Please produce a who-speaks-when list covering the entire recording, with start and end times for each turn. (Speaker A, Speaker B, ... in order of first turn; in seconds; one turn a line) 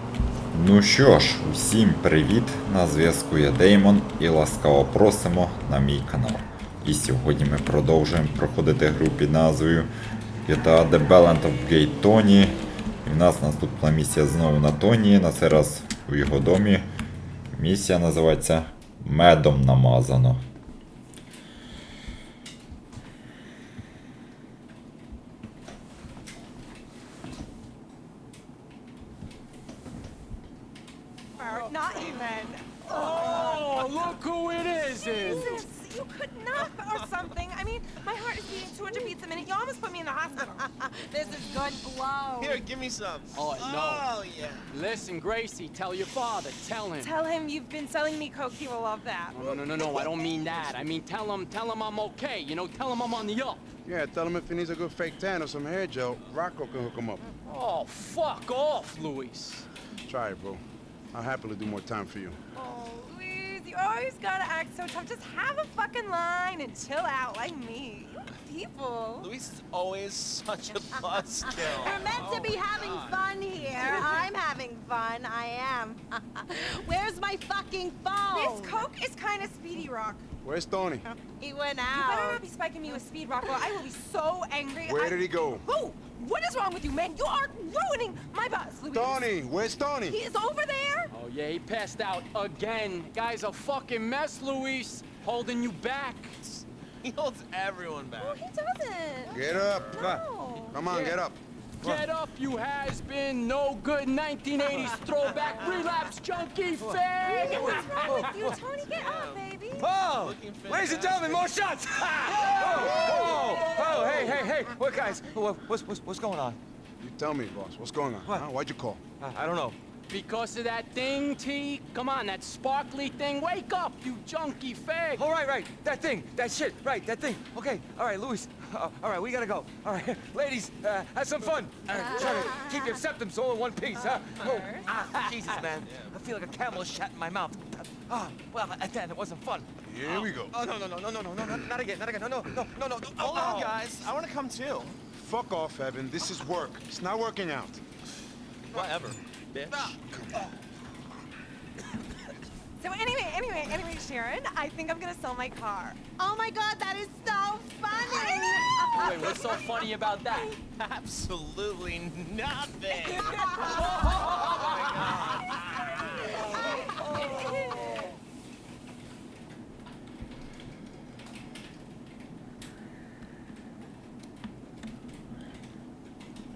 Speaker A: 0.5-9.9
Speaker A: 10.4-16.9
Speaker A: 17.5-20.4
Speaker B: 31.4-33.6
Speaker C: 32.8-35.6
Speaker B: 34.8-42.6
Speaker D: 36.6-37.0
Speaker E: 42.0-42.5
Speaker D: 42.4-44.7
Speaker C: 43.3-44.1
Speaker C: 44.7-47.1
Speaker B: 46.9-50.4
Speaker F: 49.3-49.6
Speaker C: 49.4-53.6
Speaker F: 53.8-57.2
Speaker C: 57.4-59.7
Speaker F: 60.0-60.6
Speaker F: 61.1-62.4
Speaker B: 62.5-69.2
Speaker E: 68.9-69.3
Speaker D: 69.2-73.2
Speaker E: 71.8-78.8
Speaker B: 73.6-74.3
Speaker B: 78.3-80.2
Speaker F: 80.4-81.0
Speaker E: 81.0-82.4
Speaker B: 81.9-89.4
Speaker F: 84.9-85.6
Speaker F: 88.9-90.2
Speaker B: 90.0-91.1
Speaker C: 91.1-96.4
Speaker D: 97.0-98.4
Speaker B: 98.2-100.8
Speaker F: 99.3-101.4
Speaker D: 99.5-99.9
Speaker C: 101.8-108.5
Speaker D: 104.7-105.3
Speaker B: 105.5-105.9
Speaker B: 107.2-109.9
Speaker G: 108.1-108.5
Speaker D: 108.8-109.5
Speaker G: 109.8-116.6
Speaker D: 110.1-111.4
Speaker B: 112.2-112.5
Speaker C: 112.3-113.5
Speaker F: 112.8-113.2
Speaker B: 113.5-114.1
Speaker F: 117.0-119.0
Speaker G: 119.2-119.8
Speaker C: 120.1-125.2
Speaker G: 125.2-143.8
Speaker B: 134.0-135.0
Speaker D: 135.6-136.1
Speaker F: 139.8-140.5
Speaker D: 143.2-144.9
Speaker F: 145.2-147.8
Speaker D: 148.7-149.9
Speaker G: 149.7-150.4
Speaker F: 150.0-150.4
Speaker B: 152.8-156.0
Speaker E: 156.2-159.6
Speaker B: 157.9-158.5
Speaker C: 158.8-160.5
Speaker D: 160.8-163.4
Speaker B: 163.0-163.8
Speaker C: 163.7-164.7
Speaker D: 164.1-166.2
Speaker B: 167.1-167.9